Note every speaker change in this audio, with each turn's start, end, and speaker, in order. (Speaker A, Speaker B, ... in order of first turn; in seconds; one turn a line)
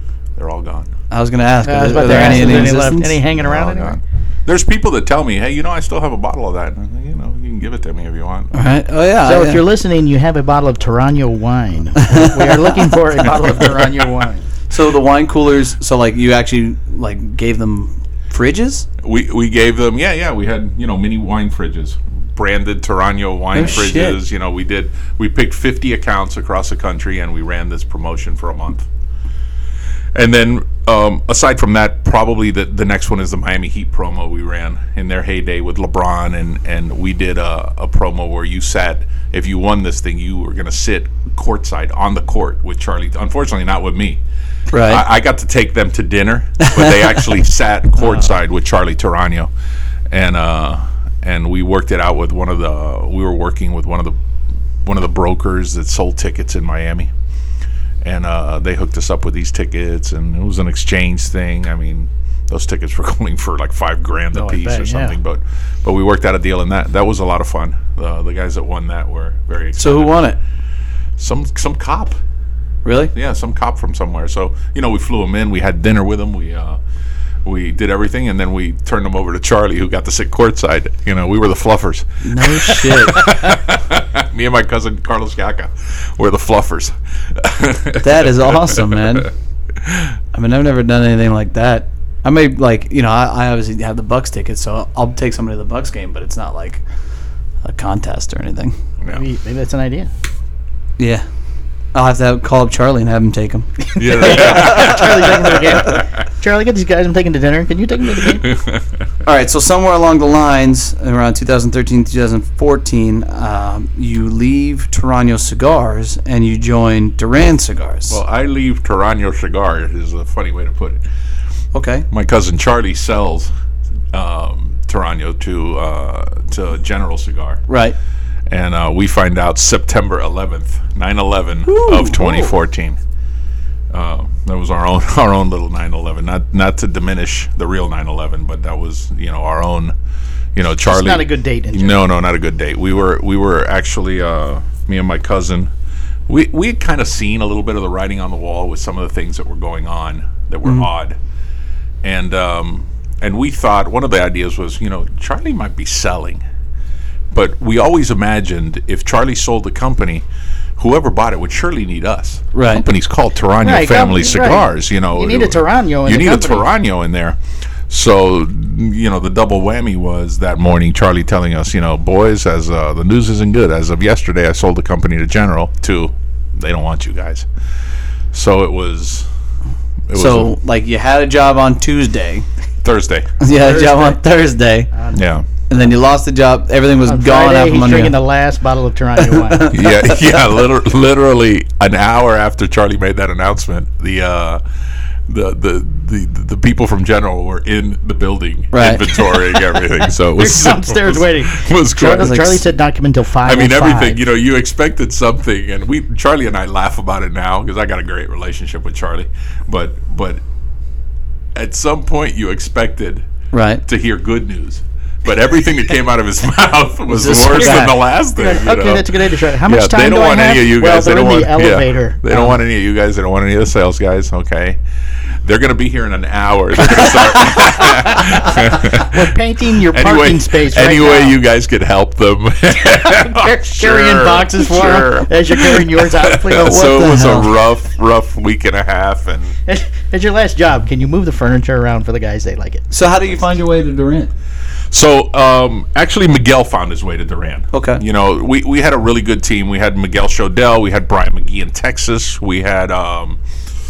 Speaker A: 0.3-0.9
Speaker B: 1.1-3.1
Speaker C: 1.6-4.0
Speaker A: 2.1-2.7
Speaker A: 3.3-8.5
Speaker B: 8.5-9.6
Speaker C: 9.2-14.4
Speaker A: 13.5-14.0
Speaker B: 14.7-18.9
Speaker A: 19.0-28.9
Speaker B: 23.5-24.2
Speaker A: 30.1-44.2
Speaker B: 44.7-45.0
Speaker A: 44.7-49.5
Speaker B: 46.6-46.9
Speaker A: 50.1-54.2
Speaker A: 54.8-57.1
Speaker A: 58.0-70.2
Speaker C: 64.3-65.1
Speaker B: 69.8-70.4
Speaker A: 71.2-72.2
Speaker B: 72.8-73.1
Speaker A: 73.1-76.8
Speaker A: 77.4-90.1
Speaker B: 82.2-83.3
Speaker B: 88.0-89.3
Speaker B: 90.3-96.8
Speaker B: 97.6-98.7
Speaker C: 99.1-100.1
Speaker B: 101.0-101.2
Speaker B: 101.9-105.1
Speaker A: 104.0-106.0
Speaker C: 104.0-108.5
Speaker A: 108.2-108.8
Speaker B: 109.2-118.2
Speaker A: 118.1-121.0
Speaker B: 121.7-122.1
Speaker A: 122.1-123.5
Speaker A: 124.1-127.6
Speaker B: 127.7-128.0
Speaker A: 128.5-133.0
Speaker B: 131.7-132.5
Speaker A: 133.9-139.9
Speaker A: 140.5-145.7
Speaker C: 140.8-142.0
Speaker A: 146.3-151.2
Speaker A: 152.0-156.4
Speaker A: 157.3-160.2
Speaker A: 160.8-177.5
Speaker B: 162.5-162.8
Speaker C: 163.6-166.7
Speaker A: 178.3-179.3
Speaker A: 180.1-180.5
Speaker B: 180.1-182.4
Speaker A: 182.8-183.4
Speaker B: 183.4-184.9
Speaker C: 183.5-184.2
Speaker C: 184.9-185.2
Speaker A: 185.1-185.5
Speaker B: 185.7-188.2
Speaker C: 187.1-189.8
Speaker B: 189.3-190.2
Speaker A: 189.7-194.6
Speaker A: 195.3-202.5
Speaker B: 198.7-199.0
Speaker C: 200.3-204.2
Speaker B: 202.0-202.6
Speaker A: 203.4-210.4
Speaker A: 211.5-213.3
Speaker B: 213.5-213.8
Speaker A: 213.8-224.8
Speaker B: 217.1-218.0
Speaker C: 217.4-222.5
Speaker A: 225.4-229.3
Speaker C: 228.7-231.4
Speaker A: 229.8-239.6
Speaker C: 233.0-236.8
Speaker B: 236.5-237.5
Speaker C: 239.7-242.9
Speaker B: 242.9-244.3
Speaker A: 244.9-253.4
Speaker B: 247.7-248.0